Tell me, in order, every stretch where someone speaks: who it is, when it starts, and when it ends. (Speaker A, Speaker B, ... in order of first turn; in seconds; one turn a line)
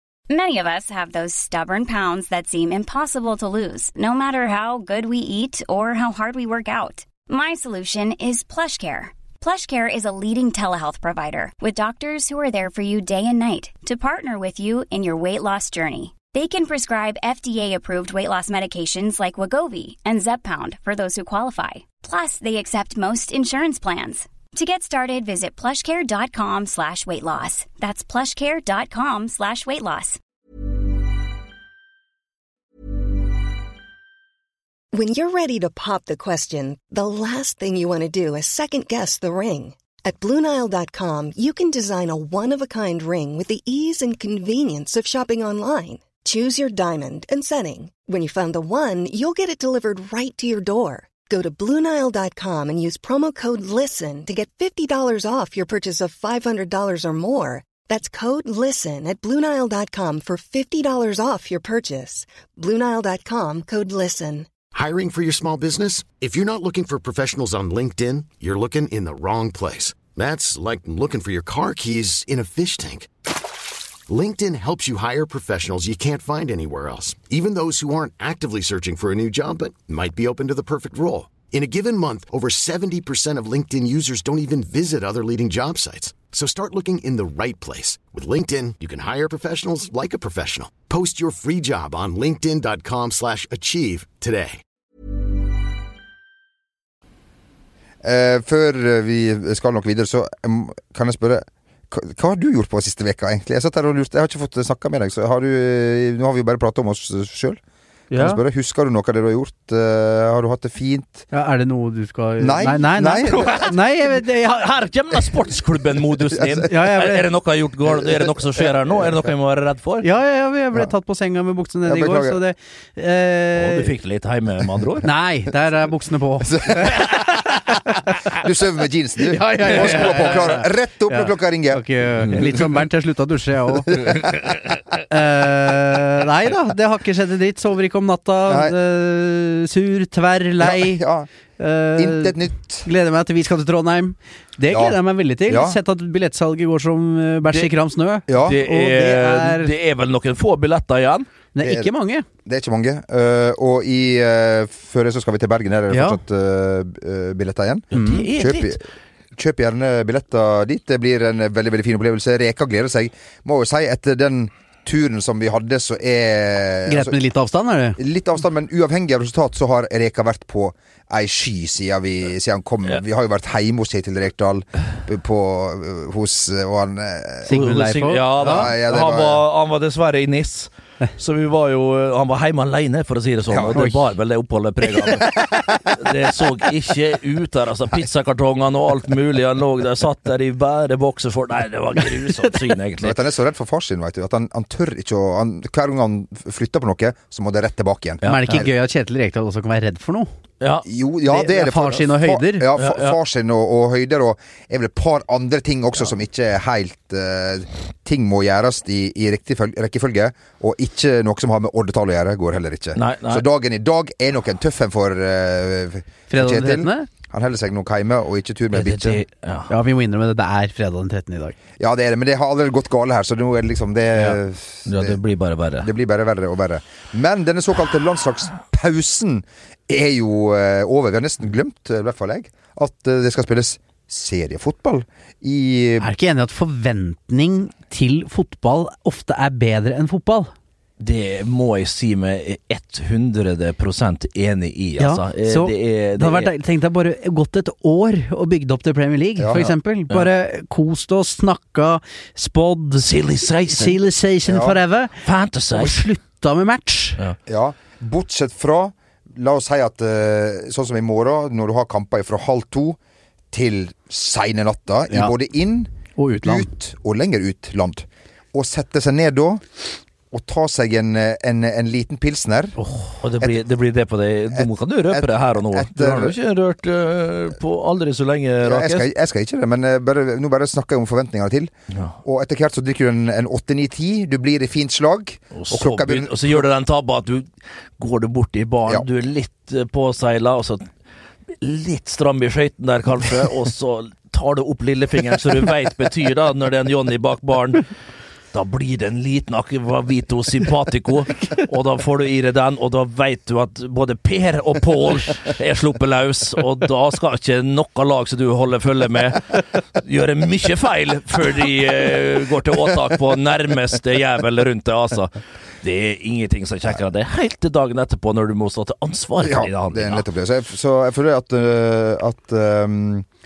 Speaker A: 0.3-30.2
Speaker B: 34.9-64.5
Speaker C: 64.7-73.1
Speaker C: 74.1-94.6
Speaker D: 98.0-107.6
Speaker E: 108.1-108.4
Speaker D: 108.1-111.2
Speaker E: 111.3-114.6
Speaker D: 112.4-113.6
Speaker F: 113.3-120.1
Speaker E: 116.6-117.2
Speaker E: 120.0-123.9
Speaker D: 121.8-122.4
Speaker F: 123.6-125.1
Speaker E: 125.0-127.6
Speaker D: 126.5-127.1
Speaker D: 128.3-131.8
Speaker E: 129.3-134.2
Speaker D: 133.9-134.3
Speaker E: 135.1-141.0
Speaker D: 138.5-138.7
Speaker D: 140.6-141.3
Speaker E: 141.6-149.7
Speaker D: 141.9-142.9
Speaker D: 144.7-145.8
Speaker D: 148.3-148.6
Speaker F: 148.3-151.3
Speaker E: 151.5-152.2
Speaker D: 151.6-151.9
Speaker D: 152.4-158.8
Speaker E: 155.9-156.2
Speaker E: 157.9-158.2
Speaker F: 157.9-158.8
Speaker D: 159.3-167.2
Speaker E: 166.9-168.0
Speaker D: 168.0-177.7
Speaker E: 177.4-178.7
Speaker F: 177.5-193.2
Speaker D: 178.3-179.4
Speaker D: 183.5-183.8
Speaker E: 183.7-184.0
Speaker D: 185.0-186.1
Speaker D: 193.0-198.7
Speaker F: 198.2-198.6
Speaker E: 198.2-200.3
Speaker F: 200.6-200.8
Speaker D: 200.8-219.2
Speaker E: 201.3-202.7
Speaker F: 202.8-203.2
Speaker F: 212.9-213.4
Speaker E: 216.3-217.1
Speaker F: 218.7-219.7
Speaker E: 219.7-221.6
Speaker D: 221.8-225.2
Speaker F: 224.8-225.9
Speaker D: 225.8-236.1
Speaker E: 236.0-240.5
Speaker F: 241.0-246.5
Speaker E: 245.0-253.1
Speaker F: 249.5-250.3
Speaker F: 253.0-254.0
Speaker E: 253.7-255.2
Speaker D: 254.5-254.8
Speaker F: 255.2-256.0
Speaker E: 255.7-257.2
Speaker D: 257.5-263.0
Speaker D: 263.5-269.6
Speaker E: 266.1-266.7
Speaker D: 270.3-272.8
Speaker F: 272.8-279.1
Speaker D: 274.5-276.4
Speaker D: 278.6-281.7
Speaker D: 282.2-286.6
Speaker F: 285.5-290.9
Speaker F: 291.6-297.8
Speaker F: 298.5-320.2
Speaker D: 319.4-323.2